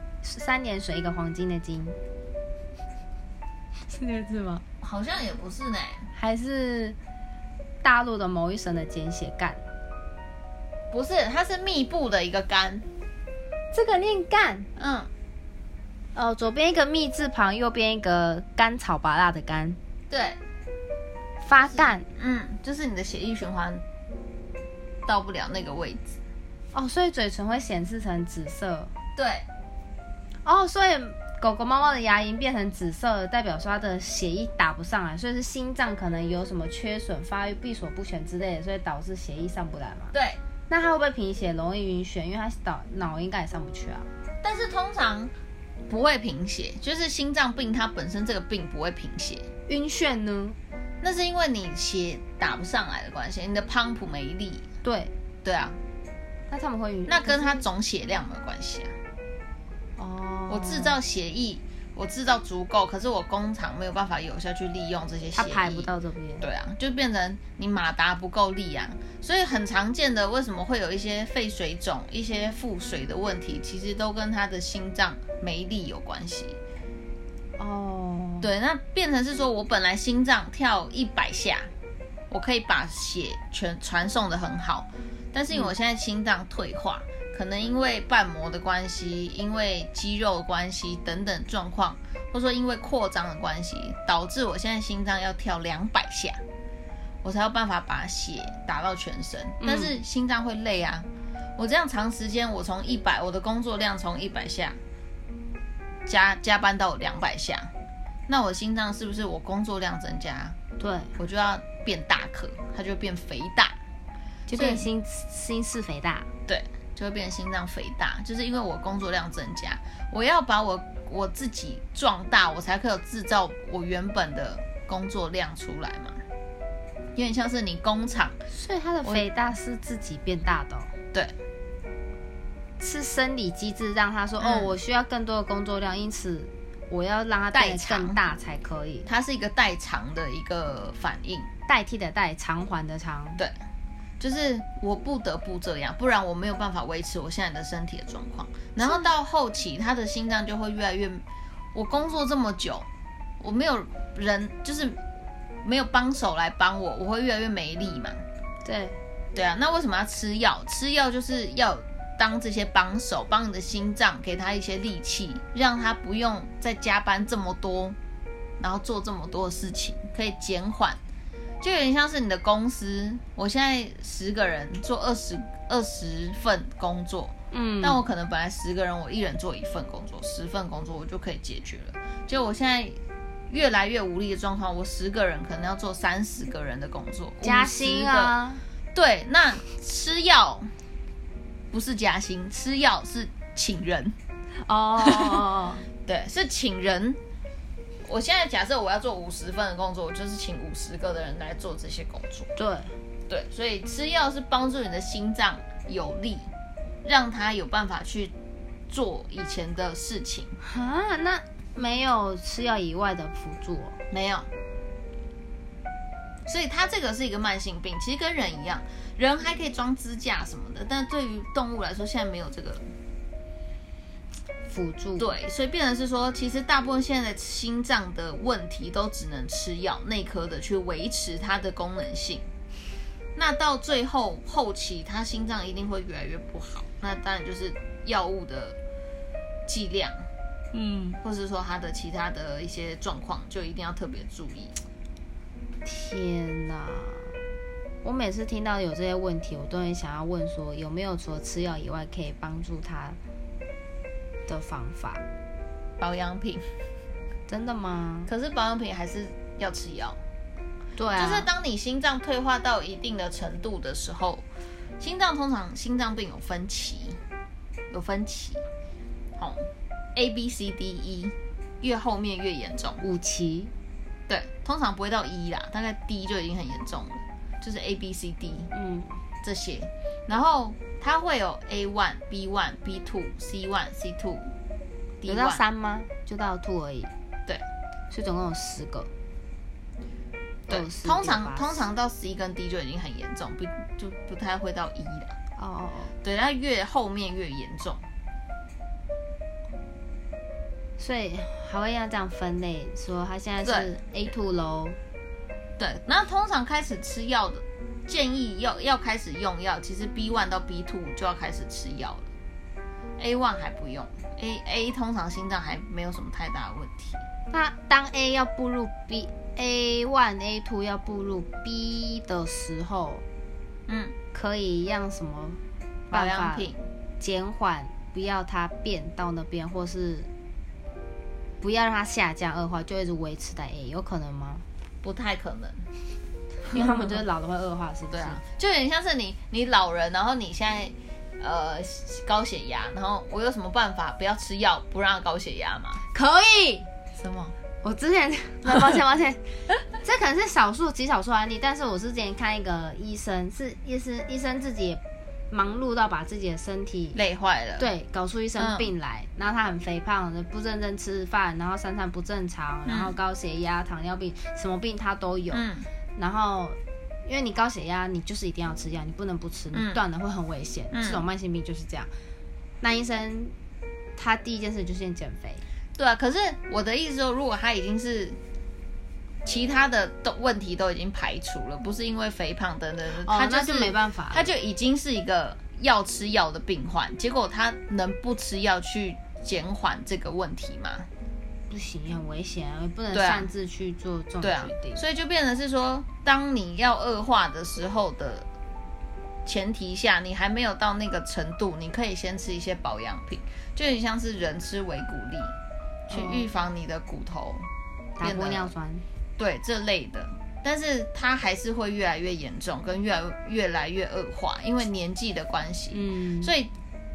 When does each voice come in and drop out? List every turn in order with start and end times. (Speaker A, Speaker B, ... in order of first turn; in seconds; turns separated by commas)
Speaker A: 0.2-2.0, Speaker A: 3.9-4.6, Speaker B: 4.8-6.1, Speaker A: 6.1-7.0, Speaker A: 7.8-9.6, Speaker B: 10.9-12.8, Speaker A: 13.7-14.7, Speaker B: 14.8-15.1, Speaker A: 16.1-19.8, Speaker B: 20.1-20.4, Speaker A: 21.4-22.1, Speaker B: 21.6-23.8, Speaker B: 25.1-26.2, Speaker A: 26.7-28.9, Speaker B: 29.2-29.5, Speaker A: 30.4-40.1, Speaker B: 40.1-40.4, Speaker A: 40.7-44.1, Speaker B: 44.4-45.3, Speaker B: 45.9-49.5, Speaker A: 49.7-50.6, Speaker B: 51.0-54.7, Speaker A: 54.8-55.1, Speaker B: 55.4-55.8, Speaker A: 56.5-57.6, Speaker B: 57.1-59.0, Speaker A: 60.0-61.0, Speaker B: 60.5-76.6, Speaker A: 65.4-66.5, Speaker A: 77.6-78.5, Speaker B: 78.4-81.7, Speaker B: 82.3-96.4, Speaker B: 97.2-104.8, Speaker A: 99.6-99.9, Speaker B: 106.1-107.7, Speaker B: 108.3-110.6, Speaker A: 110.8-111.1, Speaker B: 111.2-113.8, Speaker A: 114.5-116.3, Speaker B: 114.5-114.9, Speaker B: 116.5-126.2, Speaker B: 127.2-128.4, Speaker A: 128.5-130.9, Speaker A: 132.8-139.1, Speaker B: 134.4-134.7, Speaker B: 137.5-138.2, Speaker B: 139.1-141.5, Speaker A: 141.7-143.4, Speaker B: 144.2-152.9, Speaker A: 148.8-149.1, Speaker B: 153.4-155.0, Speaker B: 155.6-158.2, Speaker A: 158.6-159.0, Speaker B: 159.3-168.0, Speaker B: 168.6-171.0, Speaker B: 171.6-183.0, Speaker A: 177.5-178.0, Speaker B: 183.5-188.3, Speaker A: 187.4-188.6, Speaker B: 188.9-190.7, Speaker B: 191.7-194.2, Speaker A: 194.6-195.8, Speaker B: 195.0-195.4, Speaker B: 196.0-197.2, Speaker B: 198.1-202.5, Speaker A: 202.6-203.0, Speaker B: 203.3-206.5, Speaker B: 207.0-208.3, Speaker B: 208.9-210.6, Speaker A: 210.6-214.0, Speaker B: 214.1-214.5, Speaker B: 216.5-222.9, Speaker A: 224.7-225.3, Speaker B: 225.2-232.5, Speaker B: 233.4-238.8, Speaker B: 239.7-240.2, Speaker A: 240.8-241.2, Speaker B: 241.2-244.8, Speaker A: 245.8-247.4, Speaker A: 248.0-253.2, Speaker A: 254.5-255.2, Speaker B: 256.0-256.7, Speaker A: 257.5-258.3, Speaker B: 258.3-260.2, Speaker A: 261.0-261.5, Speaker B: 261.2-264.4, Speaker B: 265.0-267.2, Speaker B: 267.9-268.6, Speaker B: 269.4-273.0, Speaker A: 273.0-273.7, Speaker B: 274.3-278.7, Speaker A: 278.7-279.2, Speaker B: 279.4-284.5, Speaker B: 285.2-285.6, Speaker A: 285.3-287.1, Speaker A: 288.1-289.1, Speaker B: 290.7-295.4, Speaker A: 290.7-291.8, Speaker A: 295.6-296.1, Speaker B: 296.2-298.0, Speaker A: 301.0-305.0, Speaker B: 303.6-303.9, Speaker B: 305.8-312.3, Speaker B: 313.2-317.2, Speaker A: 317.5-323.2, Speaker B: 323.9-324.1, Speaker A: 324.3-325.6, Speaker A: 326.1-326.7, Speaker B: 326.1-326.8, Speaker A: 327.2-330.3, Speaker A: 331.6-334.6, Speaker B: 335.0-335.9, Speaker B: 336.7-337.2, Speaker A: 336.7-338.4, Speaker B: 338.1-346.0, Speaker A: 346.1-346.9, Speaker B: 347.2-347.6, Speaker A: 347.8-357.2, Speaker B: 357.1-357.9, Speaker A: 357.8-372.1, Speaker B: 358.6-358.9, Speaker B: 362.9-363.1, Speaker B: 365.5-365.9, Speaker B: 369.7-370.0, Speaker B: 370.9-371.2, Speaker A: 372.8-373.6, Speaker A: 374.2-375.6, Speaker B: 376.0-378.4, Speaker B: 379.4-391.1, Speaker A: 383.2-384.5, Speaker A: 391.7-395.0, Speaker B: 393.1-393.5, Speaker B: 394.4-398.5, Speaker B: 399.5-405.6, Speaker A: 406.1-406.5, Speaker B: 406.1-407.7, Speaker A: 408.2-409.1, Speaker B: 408.2-408.7, Speaker B: 409.4-416.7, Speaker A: 415.9-416.5